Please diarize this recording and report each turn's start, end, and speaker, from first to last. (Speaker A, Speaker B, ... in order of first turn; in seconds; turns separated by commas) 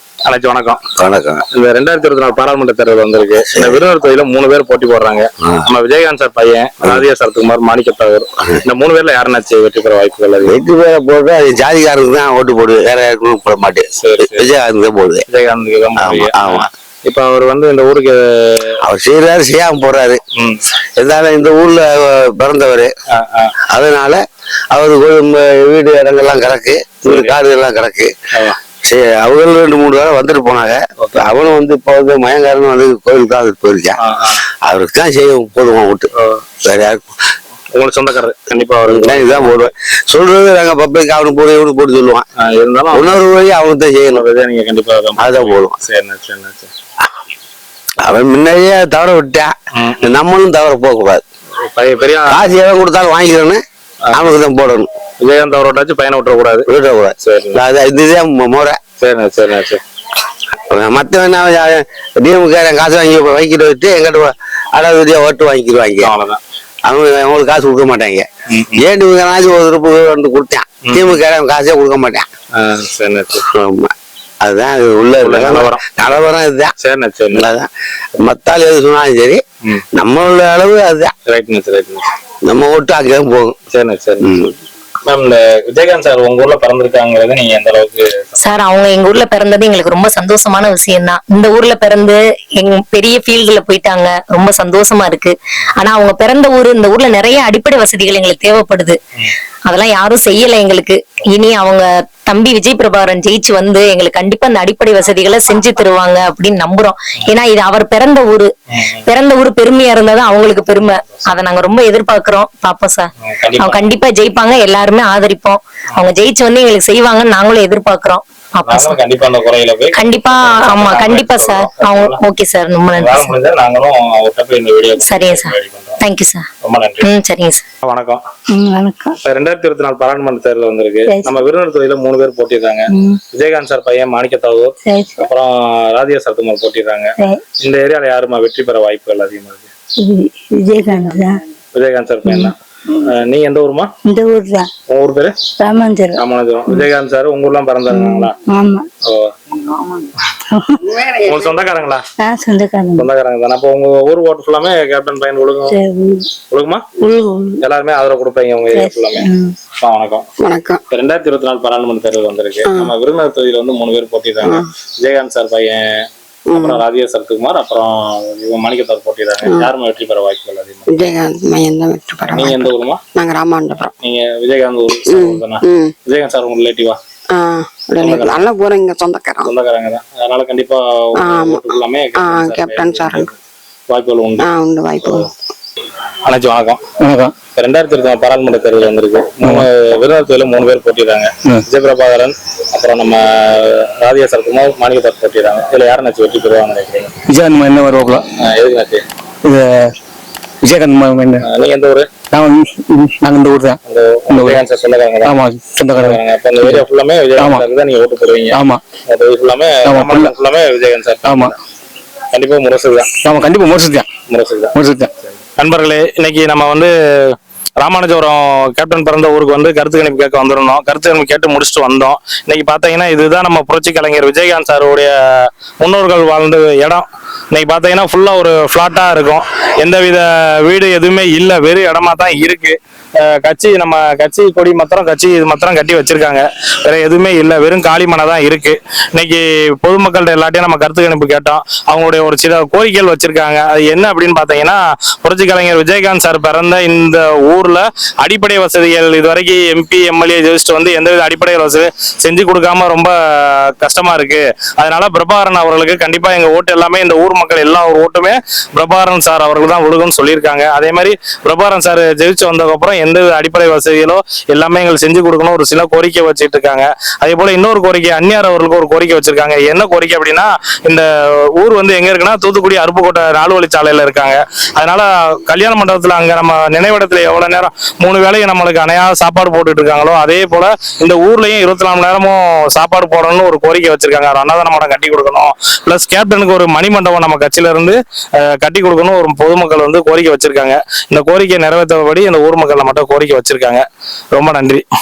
Speaker A: 0.2-0.8, Speaker B: 1.0-1.4, Speaker A: 1.5-10.6, Speaker B: 10.4-15.2, Speaker A: 14.0-14.5, Speaker A: 15.3-18.8, Speaker B: 16.0-16.7, Speaker B: 18.8-20.2, Speaker B: 21.0-22.9, Speaker A: 23.1-23.5, Speaker B: 23.7-24.2, Speaker B: 24.7-28.1, Speaker A: 27.0-27.4, Speaker B: 28.8-34.0, Speaker A: 31.0-31.4, Speaker A: 34.0-34.4, Speaker B: 34.6-36.1, Speaker A: 36.1-36.4, Speaker B: 36.6-37.0, Speaker A: 37.7-39.7, Speaker B: 38.9-42.2, Speaker A: 42.4-43.2, Speaker B: 42.9-44.2, Speaker A: 44.1-46.7, Speaker B: 45.2-45.7, Speaker B: 48.0-51.2, Speaker A: 49.8-50.1, Speaker A: 51.6-52.5, Speaker B: 52.3-53.6, Speaker A: 54.0-54.3, Speaker B: 54.1-54.9, Speaker A: 55.2-56.7, Speaker B: 56.7-58.8, Speaker A: 57.2-57.6, Speaker A: 59.0-59.8, Speaker B: 60.7-66.1, Speaker A: 66.0-66.4, Speaker B: 66.8-68.2, Speaker A: 68.5-68.8, Speaker B: 68.8-72.2, Speaker A: 70.8-71.2, Speaker A: 72.5-73.4, Speaker B: 73.5-73.9, Speaker B: 74.4-76.7, Speaker A: 75.2-76.2, Speaker A: 76.8-77.5, Speaker B: 77.3-77.7, Speaker B: 78.2-79.4, Speaker B: 79.9-81.1, Speaker A: 81.3-82.0, Speaker B: 82.5-83.5, Speaker A: 83.7-84.3, Speaker B: 84.2-84.5, Speaker A: 85.0-88.5, Speaker C: 88.4-99.0, Speaker C: 99.7-108.5, Speaker A: 108.7-109.1, Speaker C: 109.0-119.0, Speaker A: 110.3-111.2, Speaker A: 113.2-114.0, Speaker A: 118.7-122.2, Speaker C: 119.9-123.3, Speaker A: 123.0-126.0, Speaker C: 125.0-126.5, Speaker A: 126.6-127.1, Speaker C: 127.0-127.6, Speaker A: 127.8-128.2, Speaker D: 128.5-129.2, Speaker A: 129.2-139.7, Speaker D: 131.1-131.3, Speaker D: 134.8-135.3, Speaker D: 140.0-141.4, Speaker A: 141.7-143.9, Speaker D: 142.2-142.5, Speaker D: 144.0-144.7, Speaker A: 144.9-145.3, Speaker D: 145.6-146.9, Speaker A: 146.2-148.3, Speaker D: 147.9-148.9, Speaker A: 149.1-149.3, Speaker D: 150.6-151.3, Speaker A: 151.2-152.0, Speaker D: 152.2-153.1, Speaker A: 152.9-155.8, Speaker D: 155.7-156.3, Speaker A: 156.5-156.8, Speaker D: 157.0-157.6, Speaker A: 157.6-159.3, Speaker D: 158.7-159.5, Speaker A: 159.8-160.2, Speaker E: 160.4-160.8, Speaker A: 160.9-170.8, Speaker E: 166.5-166.8, Speaker E: 170.9-173.9, Speaker A: 172.3-173.0, Speaker A: 174.0-177.0, Speaker E: 175.1-175.9, Speaker E: 177.3-179.5, Speaker A: 178.0-178.5, Speaker A: 179.4-183.3, Speaker E: 181.2-181.6, Speaker E: 182.2-183.3, Speaker A: 183.9-184.5, Speaker E: 184.4-185.2, Speaker A: 186.2-186.8, Speaker F: 187.0-187.3, Speaker A: 187.5-197.1, Speaker F: 197.3-198.2, Speaker A: 198.4-199.0, Speaker F: 199.4-199.8, Speaker F: 200.6-201.4, Speaker A: 201.4-202.1, Speaker F: 202.3-203.8, Speaker A: 203.9-205.4, Speaker F: 204.3-204.6, Speaker F: 205.2-206.8, Speaker A: 205.9-211.6, Speaker F: 207.4-207.6, Speaker F: 208.5-208.8, Speaker F: 209.8-210.3, Speaker F: 211.2-211.5, Speaker A: 212.3-213.1, Speaker F: 213.2-214.1, Speaker A: 214.3-214.8, Speaker F: 214.7-215.1, Speaker A: 215.4-294.8